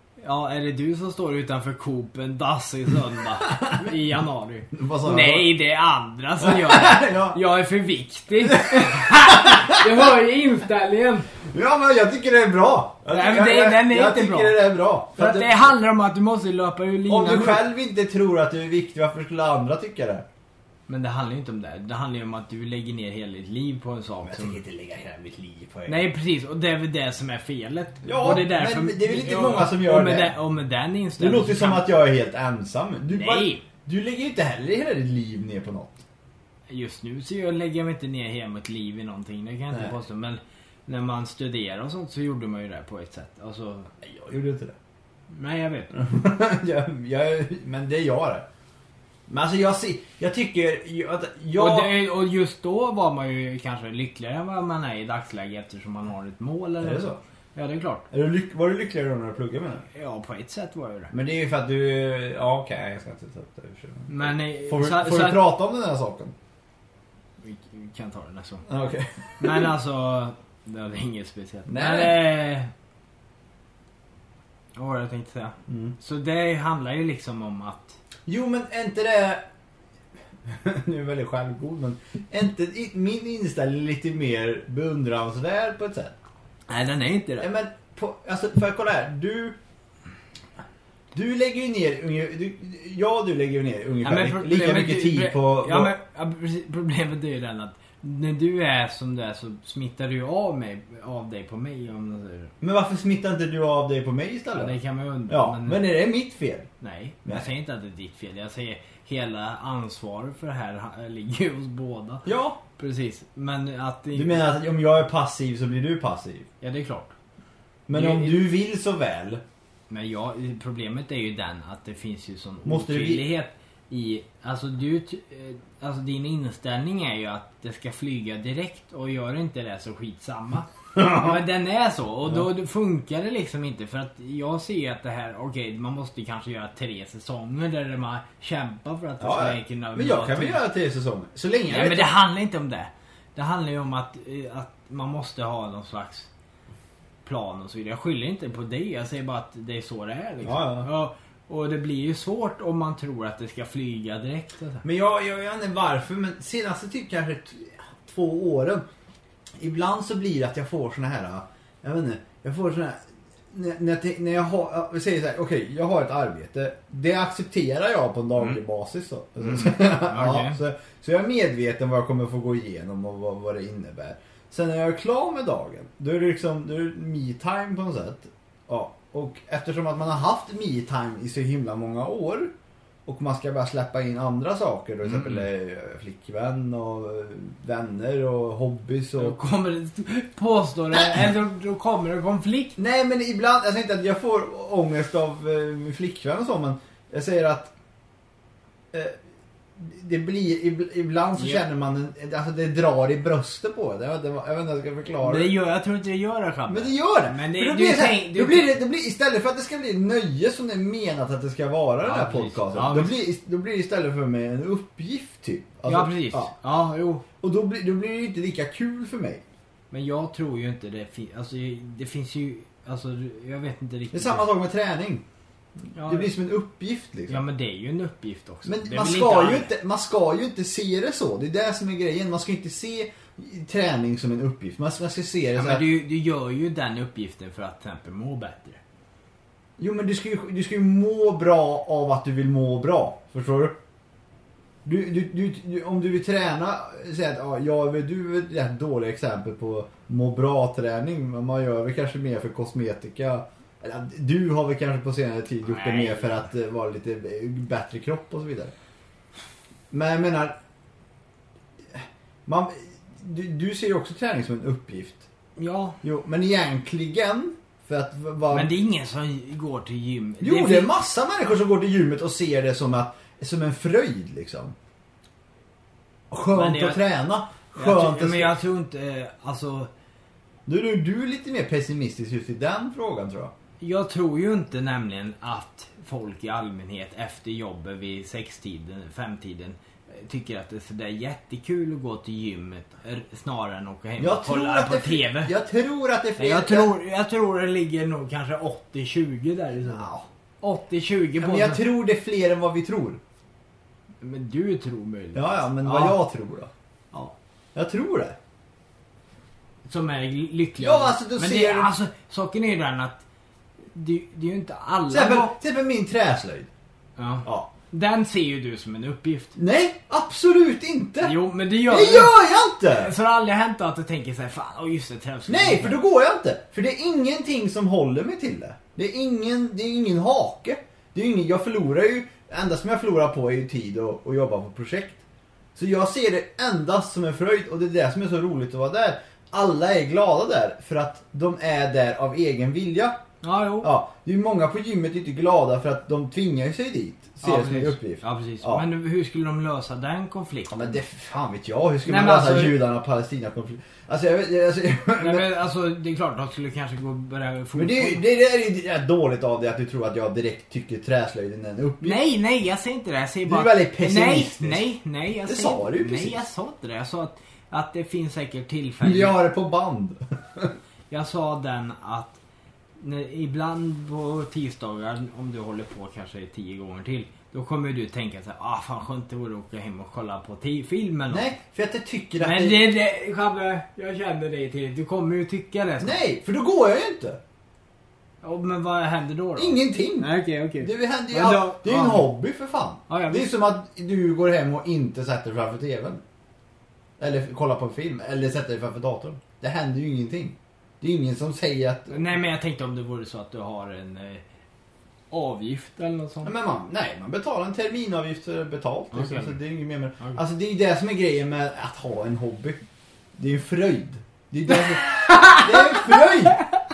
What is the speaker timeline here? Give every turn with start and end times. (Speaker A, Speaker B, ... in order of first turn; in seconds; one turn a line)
Speaker A: 0.2-11.3
Speaker B: 4.7-5.5
Speaker B: 6.4-7.4
Speaker B: 8.4-9.8
Speaker B: 11.4-15.6
Speaker A: 13.1-17.6
Speaker B: 17.1-20.2
Speaker A: 20.9-24.6
Speaker B: 24.2-26.0
Speaker A: 25.9-31.9
Speaker B: 28.0-30.3
Speaker B: 31.2-36.0
Speaker A: 33.1-33.6
Speaker A: 36.7-43.9
Speaker B: 44.0-44.8
Speaker A: 45.3-46.0
Speaker B: 45.9-48.5
Speaker B: 49.3-52.0
Speaker A: 51.5-58.0
Speaker B: 56.8-57.2
Speaker B: 58.1-59.9
Speaker A: 59.9-61.1
Speaker B: 61.1-66.3
Speaker A: 64.1-65.5
Speaker A: 67.4-68.6
Speaker B: 68.7-69.7
Speaker A: 69.4-72.7
Speaker B: 71.7-72.2
Speaker A: 74.7-78.0
Speaker B: 75.7-75.9
Speaker B: 78.2-79.4
Speaker B: 80.5-86.1
Speaker A: 86.7-87.5
Speaker B: 87.4-89.6
Speaker B: 91.1-95.9
Speaker A: 94.0-102.5
Speaker B: 102.6-104.8
Speaker A: 104.5-105.8
Speaker B: 105.3-106.7
Speaker A: 106.8-114.4
Speaker B: 112.2-112.6
Speaker B: 114.1-116.5
Speaker A: 116.6-117.1
Speaker B: 117.9-119.4
Speaker A: 117.9-118.5
Speaker A: 119.9-140.6
Speaker B: 122.6-123.2
Speaker B: 139.2-142.1
Speaker A: 141.7-146.3
Speaker A: 147.2-154.8
Speaker B: 150.4-150.9
Speaker B: 154.8-158.8
Speaker B: 159.6-182.5
Speaker A: 169.4-170.6
Speaker B: 183.1-189.4
Speaker A: 185.1-185.4
Speaker A: 189.2-192.8
Speaker B: 190.9-191.3
Speaker B: 192.8-197.7
Speaker B: 198.9-199.2
Speaker B: 199.8-205.5
Speaker A: 201.4-201.6
Speaker A: 205.2-208.7
Speaker B: 206.7-216.5
Speaker A: 212.0-213.2
Speaker A: 215.8-217.2
Speaker B: 217.4-219.4
Speaker A: 219.9-224.5
Speaker B: 224.1-225.2
Speaker A: 225.9-226.3
Speaker B: 226.0-227.4
Speaker A: 227.3-229.7
Speaker B: 228.6-235.8
Speaker A: 235.5-238.8
Speaker B: 239.8-243.8
Speaker B: 244.8-258.7
Speaker A: 255.6-256.4
Speaker B: 259.9-260.6
Speaker B: 261.9-265.3
Speaker A: 265.6-266.0
Speaker B: 266.0-268.7
Speaker A: 268.5-270.9
Speaker B: 270.4-274.8
Speaker B: 276.3-278.5
Speaker A: 276.5-277.0
Speaker A: 277.7-279.9
Speaker B: 280.6-283.5
Speaker A: 283.8-295.5
Speaker B: 294.2-296.9
Speaker A: 296.4-300.1
Speaker B: 299.9-300.2
Speaker A: 300.6-301.8
Speaker B: 301.4-303.2
Speaker A: 304.2-306.2
Speaker B: 305.3-306.7
Speaker B: 307.7-308.4
Speaker A: 309.9-313.2
Speaker B: 310.8-311.9
Speaker A: 313.9-315.5
Speaker B: 315.1-316.7
Speaker A: 317.2-319.6
Speaker B: 319.6-323.1
Speaker A: 321.2-326.0
Speaker B: 325.5-335.2
Speaker B: 335.7-343.2
Speaker A: 343.4-343.9
Speaker B: 343.8-348.9
Speaker A: 347.4-351.0
Speaker B: 350.7-355.5
Speaker A: 352.1-352.8
Speaker A: 355.2-358.2
Speaker B: 357.7-362.2
Speaker A: 362.0-369.4
Speaker B: 363.5-364.9
Speaker B: 365.4-366.4
Speaker B: 369.0-370.7
Speaker A: 371.1-372.4
Speaker A: 373.0-381.5
Speaker B: 381.3-382.9
Speaker A: 382.4-386.2
Speaker B: 386.0-387.4
Speaker A: 388.4-392.3
Speaker B: 389.6-396.2
Speaker A: 393.1-393.5
Speaker B: 397.2-402.4
Speaker A: 402.1-404.4
Speaker A: 405.3-406.5
Speaker B: 406.4-412.8
Speaker A: 409.1-409.6
Speaker B: 413.4-416.6
Speaker A: 415.1-416.3